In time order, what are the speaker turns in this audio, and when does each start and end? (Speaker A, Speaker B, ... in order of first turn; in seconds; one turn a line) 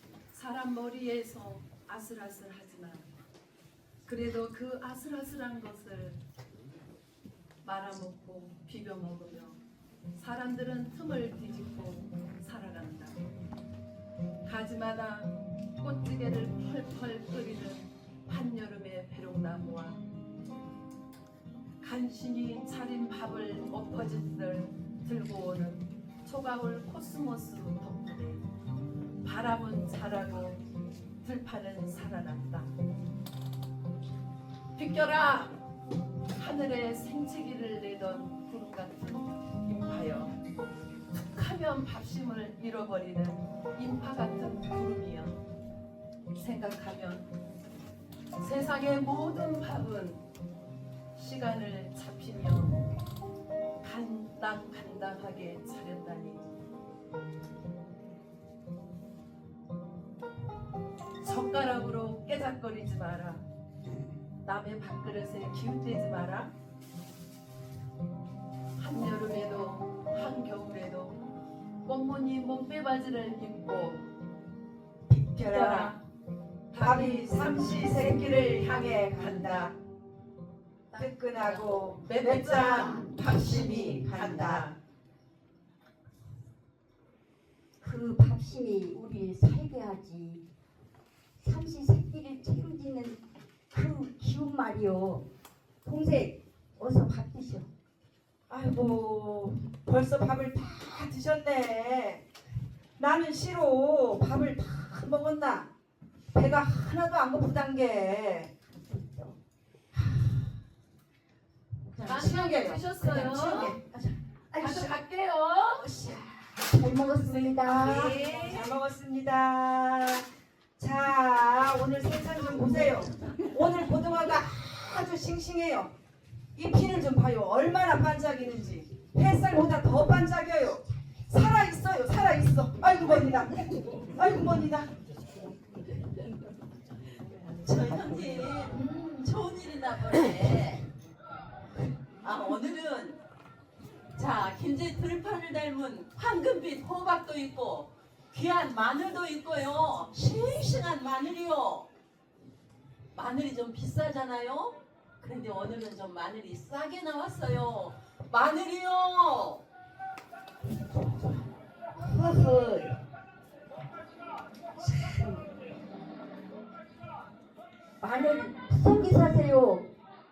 Speaker A: 0.3-3.1
Speaker A: 4.0-6.2
Speaker A: 7.6-9.6
Speaker A: 10.1-13.2
Speaker A: 14.4-20.0
Speaker A: 21.8-28.5
Speaker A: 29.2-30.6
Speaker A: 31.2-32.7
Speaker A: 34.8-35.6
Speaker A: 36.3-40.4
Speaker A: 41.3-45.4
Speaker A: 46.4-47.3
Speaker A: 48.4-50.2
Speaker A: 51.1-52.9
Speaker A: 53.8-56.6
Speaker A: 61.2-63.5
Speaker A: 64.4-66.5
Speaker A: 68.8-71.2
Speaker A: 71.8-74.1
Speaker B: 75.1-76.0
Speaker A: 75.5-76.0
Speaker A: 76.7-79.6
Speaker B: 76.7-79.7
Speaker A: 80.9-84.6
Speaker B: 80.9-84.8
Speaker C: 87.8-90.5
Speaker C: 91.4-93.2
Speaker C: 93.7-95.3
Speaker C: 95.8-97.7
Speaker B: 98.5-102.2
Speaker B: 103.0-105.7
Speaker B: 106.3-108.5
Speaker C: 108.8-109.4
Speaker B: 110.0-110.3
Speaker B: 111.9-114.9
Speaker A: 112.0-113.8
Speaker A: 114.6-115.9
Speaker B: 115.7-120.2
Speaker C: 116.7-118.2
Speaker A: 117.7-118.8
Speaker B: 120.8-125.9
Speaker B: 126.6-134.9
Speaker D: 137.6-140.8
Speaker D: 142.2-143.2
Speaker D: 144.2-151.9
Speaker D: 153.1-159.6
Speaker C: 162.2-162.6
Speaker C: 164.8-165.4
Speaker C: 168.0-169.9